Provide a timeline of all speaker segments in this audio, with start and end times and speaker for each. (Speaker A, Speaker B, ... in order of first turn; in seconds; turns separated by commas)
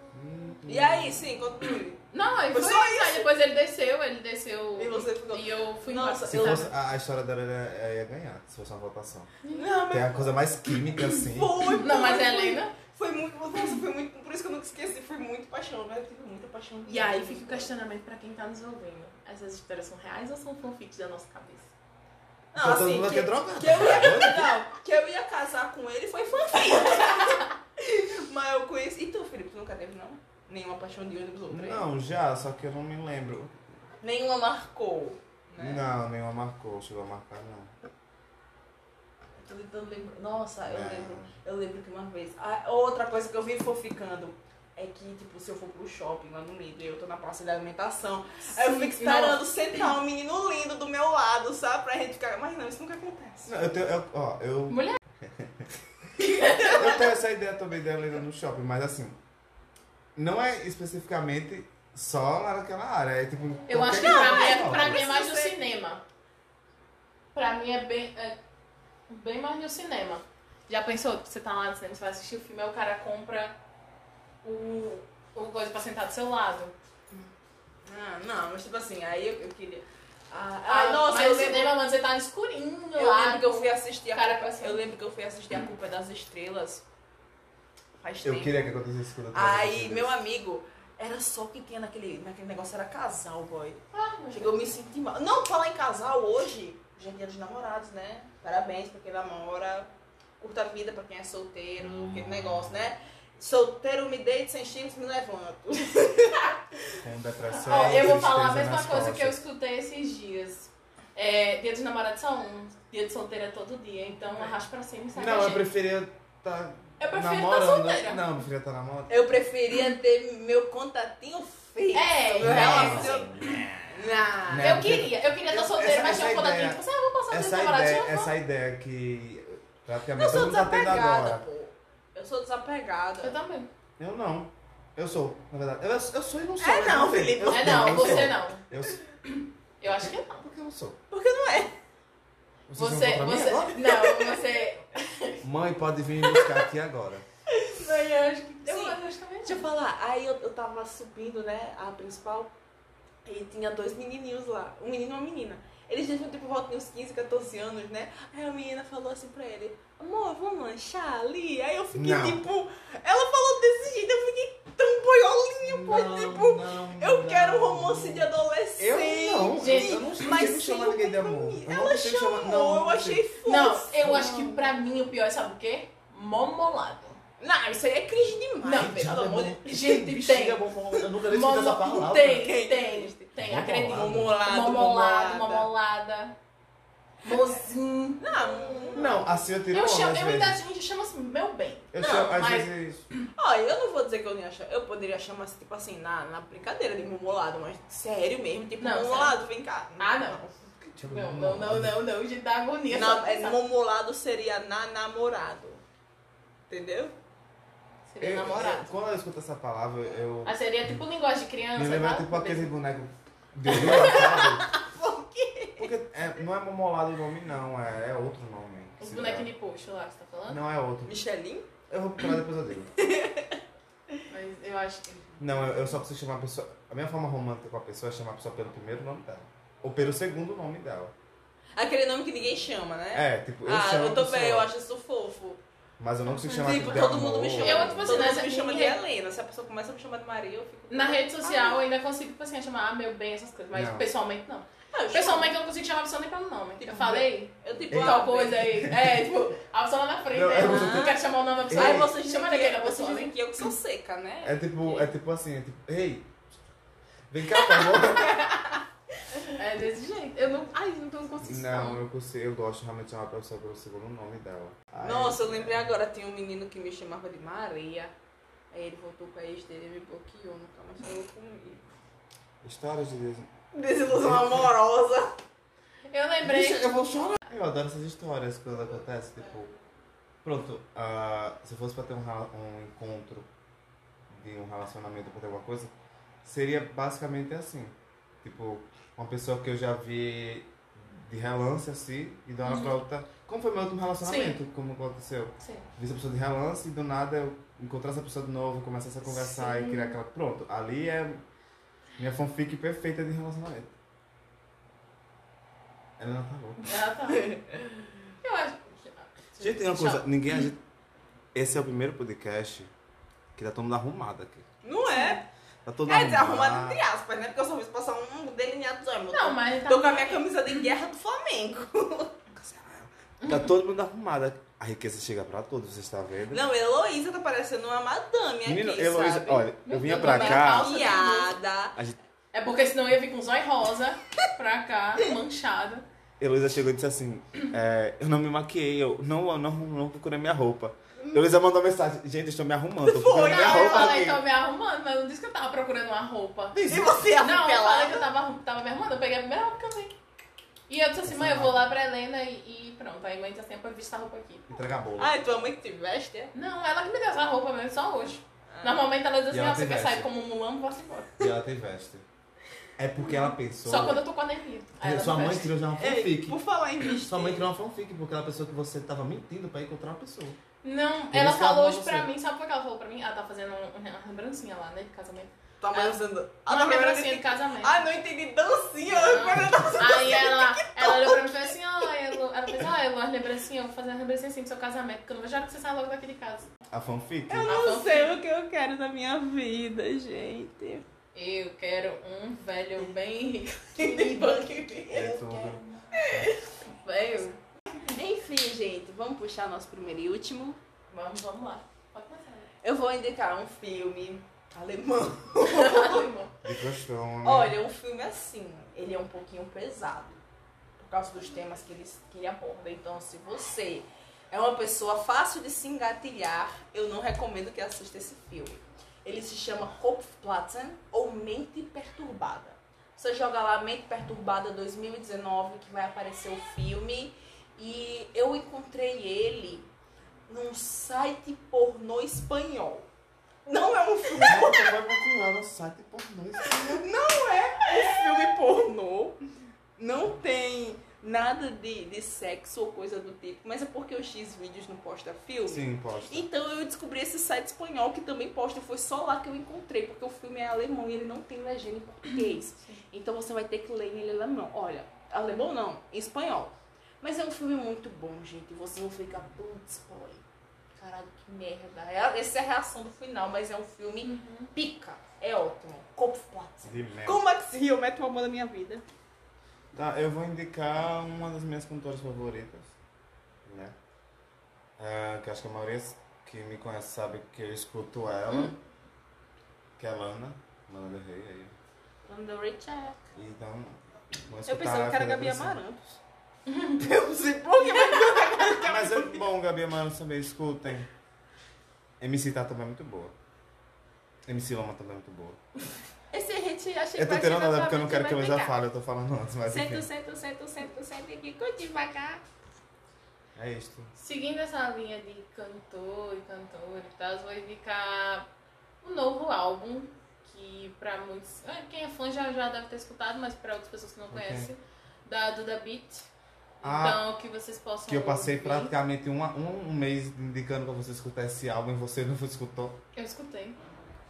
Speaker A: 0.1-1.2, Speaker B: 0.7-2.0, Speaker C: 2.1-6.7, Speaker B: 2.5-3.3, Speaker B: 4.8-6.7, Speaker A: 6.3-9.3, Speaker C: 9.4-9.8, Speaker B: 9.5-10.4, Speaker A: 9.9-11.6, Speaker B: 11.1-17.7, Speaker C: 11.7-12.7, Speaker C: 16.9-21.7, Speaker B: 22.5-31.9, Speaker A: 22.6-24.6, Speaker C: 26.6-27.5, Speaker A: 31.5-33.6, Speaker B: 34.0-35.9, Speaker A: 35.6-37.7, Speaker B: 39.4-53.6, Speaker A: 40.6-41.3, Speaker C: 48.6-49.4, Speaker A: 53.5-55.7, Speaker C: 54.7-55.0, Speaker C: 56.2-57.0, Speaker B: 56.3-57.0, Speaker A: 56.6-59.2, Speaker A: 60.2-65.1, Speaker C: 63.7-66.0, Speaker B: 63.8-65.7, Speaker C: 67.3-68.4, Speaker C: 69.1-73.6, Speaker C: 74.4-76.7, Speaker B: 77.9-81.8, Speaker C: 80.7-84.8, Speaker B: 83.0-86.8, Speaker B: 88.0-88.7, Speaker A: 88.2-90.2, Speaker B: 89.3-107.0, Speaker C: 93.9-94.6, Speaker A: 107.0-109.4, Speaker C: 107.6-115.7, Speaker B: 107.7-108.1, Speaker B: 114.3-114.6, Speaker A: 115.2-119.1, Speaker C: 117.0-118.2, Speaker B: 119.1-124.8, Speaker C: 121.9-123.3, Speaker A: 122.4-123.8, Speaker A: 124.5-131.4, Speaker C: 124.6-128.3, Speaker B: 130.2-133.4, Speaker C: 133.2-133.7, Speaker A: 134.0-139.0, Speaker B: 136.6-138.3, Speaker C: 137.5-138.6, Speaker C: 139.3-140.5, Speaker A: 139.9-141.0, Speaker B: 141.1-141.7, Speaker A: 142.7-143.8, Speaker C: 142.8-145.4, Speaker B: 143.8-144.4, Speaker A: 145.4-147.2, Speaker C: 147.6-149.7, Speaker B: 148.7-152.5, Speaker B: 153.2-174.7, Speaker A: 161.9-162.4, Speaker A: 165.6-173.2, Speaker C: 169.6-170.1, Speaker C: 173.4-177.2, Speaker B: 177.4-179.8, Speaker C: 178.6-180.6, Speaker A: 178.8-182.4, Speaker C: 181.2-186.4, Speaker B: 182.2-183.3, Speaker A: 183.4-184.3, Speaker B: 183.9-185.7, Speaker C: 187.2-189.2, Speaker B: 188.2-189.2, Speaker A: 188.9-190.6, Speaker C: 189.7-192.7, Speaker A: 191.9-193.1, Speaker B: 192.0-192.4, Speaker B: 193.3-200.7, Speaker C: 198.8-199.4, Speaker C: 200.0-200.4, Speaker A: 200.9-202.0, Speaker C: 201.0-203.6, Speaker B: 202.9-205.8, Speaker B: 206.7-207.1, Speaker C: 208.1-208.9, Speaker A: 208.2-210.6, Speaker C: 210.4-212.7, Speaker A: 211.8-214.7, Speaker B: 213.7-215.9, Speaker C: 213.7-214.2, Speaker A: 215.8-219.5, Speaker C: 219.0-220.6, Speaker A: 220.5-221.2, Speaker B: 221.1-221.7, Speaker A: 221.9-222.9, Speaker B: 223.0-223.6, Speaker C: 224.3-226.0, Speaker A: 225.4-231.1, Speaker B: 231.8-235.6, Speaker A: 233.1-234.7, Speaker A: 236.0-238.4, Speaker C: 236.4-239.0, Speaker B: 236.5-241.8, Speaker C: 240.9-253.3, Speaker A: 243.7-244.1, Speaker B: 244.9-245.6, Speaker B: 246.8-248.8, Speaker A: 247.9-249.2, Speaker A: 250.3-252.1, Speaker B: 250.6-254.7, Speaker A: 254.4-256.3, Speaker A: 257.3-258.4, Speaker B: 257.8-258.8, Speaker C: 259.6-262.0, Speaker A: 261.4-265.9, Speaker B: 265.0-268.1, Speaker B: 268.7-271.9, Speaker A: 272.6-273.5, Speaker B: 273.7-275.4, Speaker A: 274.1-274.7, Speaker C: 276.1-277.0, Speaker A: 276.4-279.7, Speaker A: 280.4-283.5, Speaker A: 284.3-285.9, Speaker A: 286.4-301.4, Speaker C: 292.6-293.0, Speaker C: 294.2-294.6, Speaker C: 295.6-295.9, Speaker C: 299.2-300.2, Speaker A: 302.2-303.9, Speaker A: 306.2-306.9, Speaker C: 306.8-307.6, Speaker B: 307.3-308.0, Speaker C: 308.4-310.6, Speaker A: 309.6-310.8, Speaker A: 311.5-312.9, Speaker A: 313.6-314.7, Speaker B: 314.8-315.5, Speaker C: 315.1-315.4, Speaker A: 315.9-317.0, Speaker B: 316.1-323.1, Speaker C: 319.3-320.5, Speaker C: 323.4-323.7, Speaker A: 323.5-326.6, Speaker B: 326.5-332.0, Speaker A: 328.6-331.1, Speaker C: 329.9-331.5, Speaker C: 332.5-336.1, Speaker A: 336.4-344.4, Speaker B: 343.0-344.3, Speaker C: 343.4-346.8, Speaker A: 346.7-347.2, Speaker B: 346.9-348.3, Speaker C: 347.4-350.1, Speaker C: 350.9-354.8, Speaker A: 351.2-351.9, Speaker A: 354.7-355.4, Speaker B: 355.2-356.5, Speaker C: 356.5-361.4, Speaker B: 358.7-359.0, Speaker A: 359.5-360.3, Speaker A: 361.4-362.2, Speaker A: 363.0-364.2, Speaker C: 363.2-365.7, Speaker A: 365.0-370.6, Speaker B: 366.0-367.7, Speaker C: 370.8-378.1, Speaker A: 371.3-372.3, Speaker B: 375.8-381.7, Speaker C: 379.1-386.7, Speaker A: 379.4-380.1, Speaker A: 386.9-387.7, Speaker B: 387.5-391.1, Speaker C: 387.7-388.4, Speaker C: 391.4-397.6, Speaker B: 393.9-394.7, Speaker A: 395.1-396.5, Speaker B: 396.2-396.4, Speaker B: 398.1-400.8, Speaker C: 401.1-402.7, Speaker B: 402.8-406.3, Speaker C: 405.7-406.5, Speaker A: 406.6-407.8, Speaker B: 407.4-410.4, Speaker B: 411.0-429.9, Speaker B: 430.5-433.1, Speaker B: 433.7-435.0, Speaker A: 434.4-437.1, Speaker B: 436.6-439.4, Speaker B: 440.0-460.4, Speaker A: 445.7-446.5, Speaker B: 461.0-469.0, Speaker C: 464.2-464.7, Speaker A: 466.8-467.5, Speaker A: 469.9-472.9, Speaker A: 473.6-474.0, Speaker A: 475.0-478.8, Speaker A: 480.0-481.8, Speaker B: 482.2-483.2, Speaker A: 483.4-485.8, Speaker B: 484.7-486.2, Speaker C: 486.7-487.0, Speaker B: 487.0-489.4, Speaker C: 487.8-488.6, Speaker A: 488.8-491.1, Speaker A: 492.2-493.3, Speaker A: 494.5-495.6, Speaker B: 496.3-498.7, Speaker A: 497.2-500.1, Speaker B: 499.7-502.4, Speaker A: 503.6-504.1, Speaker C: 504.2-508.5, Speaker C: 509.0-516.3, Speaker A: 514.3-514.7, Speaker C: 516.8-518.9, Speaker A: 516.8-517.3, Speaker A: 518.1-523.0, Speaker C: 523.1-523.8